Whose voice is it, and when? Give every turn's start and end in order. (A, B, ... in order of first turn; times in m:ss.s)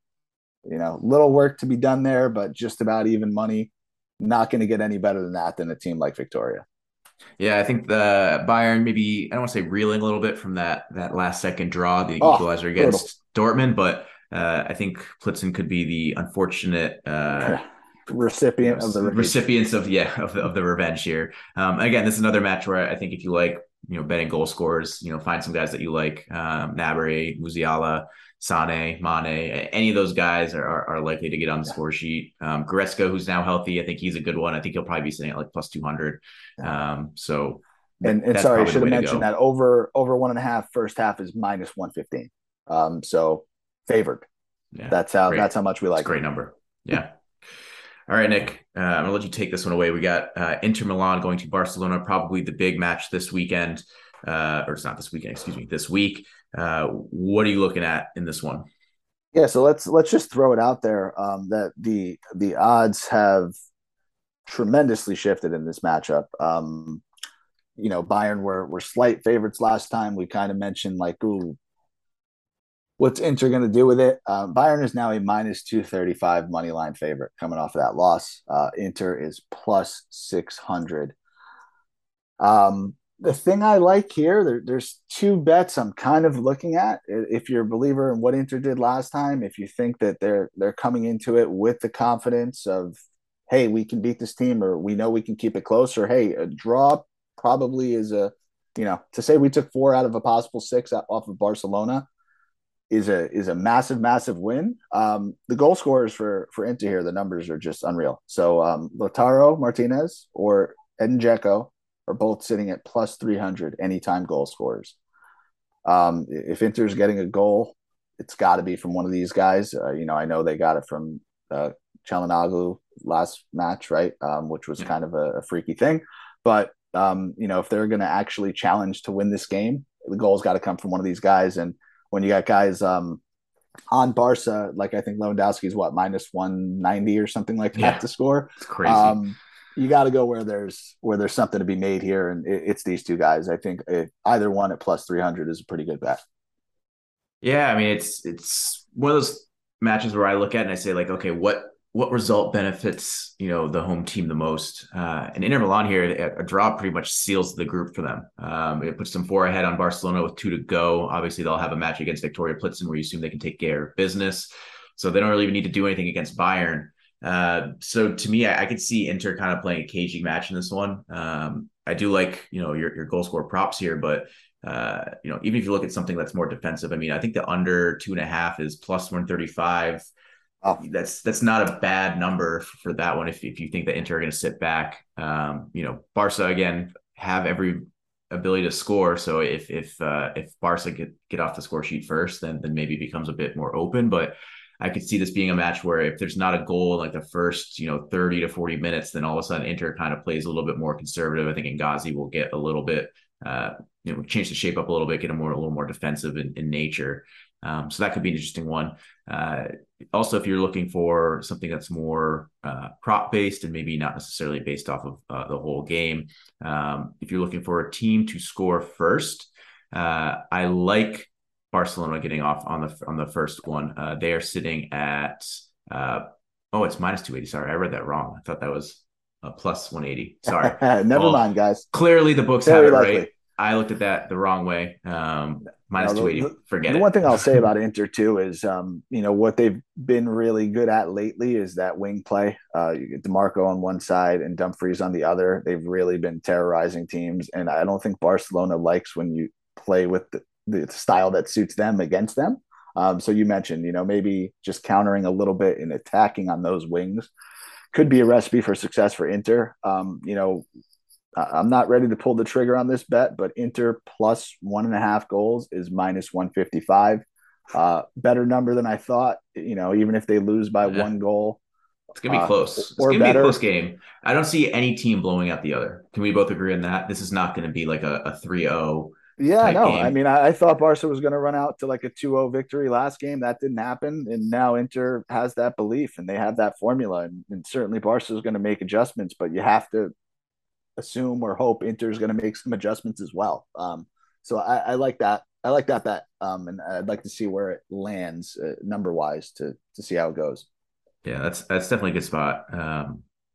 0:00.6-0:06.6 A
0:07.4-0:17.6 B
0:12.2-0:13.0 A
0:17.4-0:19.4 A
0:18.6-0:39.3 B
0:38.0-0:44.2 A
0:44.7-0:47.1 B
0:44.9-0:46.1 A
0:48.1-0:58.6 B
0:59.3-1:03.5 A
1:04.4-1:07.0 A
1:07.8-1:11.6 A
1:13.0-1:21.1 A
1:22.4-1:33.0 A
1:33.5-1:42.0 A
1:42.9-1:55.0 A
1:55.8-2:13.2 A
2:13.9-2:26.2 A
2:17.7-2:18.0 B
2:18.6-2:19.2 B
2:27.4-3:00.1 B
3:00.8-3:57.4 B
3:50.4-3:51.8 A
3:52.6-3:53.3 A
3:56.0-4:17.3 A
4:17.9-4:20.6 A
4:21.4-4:31.6 A
4:30.8-4:31.1 B
4:32.1-4:40.2 B
4:32.3-4:33.6 A
4:39.4-4:50.1 A
4:51.0-5:00.6 A
5:01.2-5:03.2 B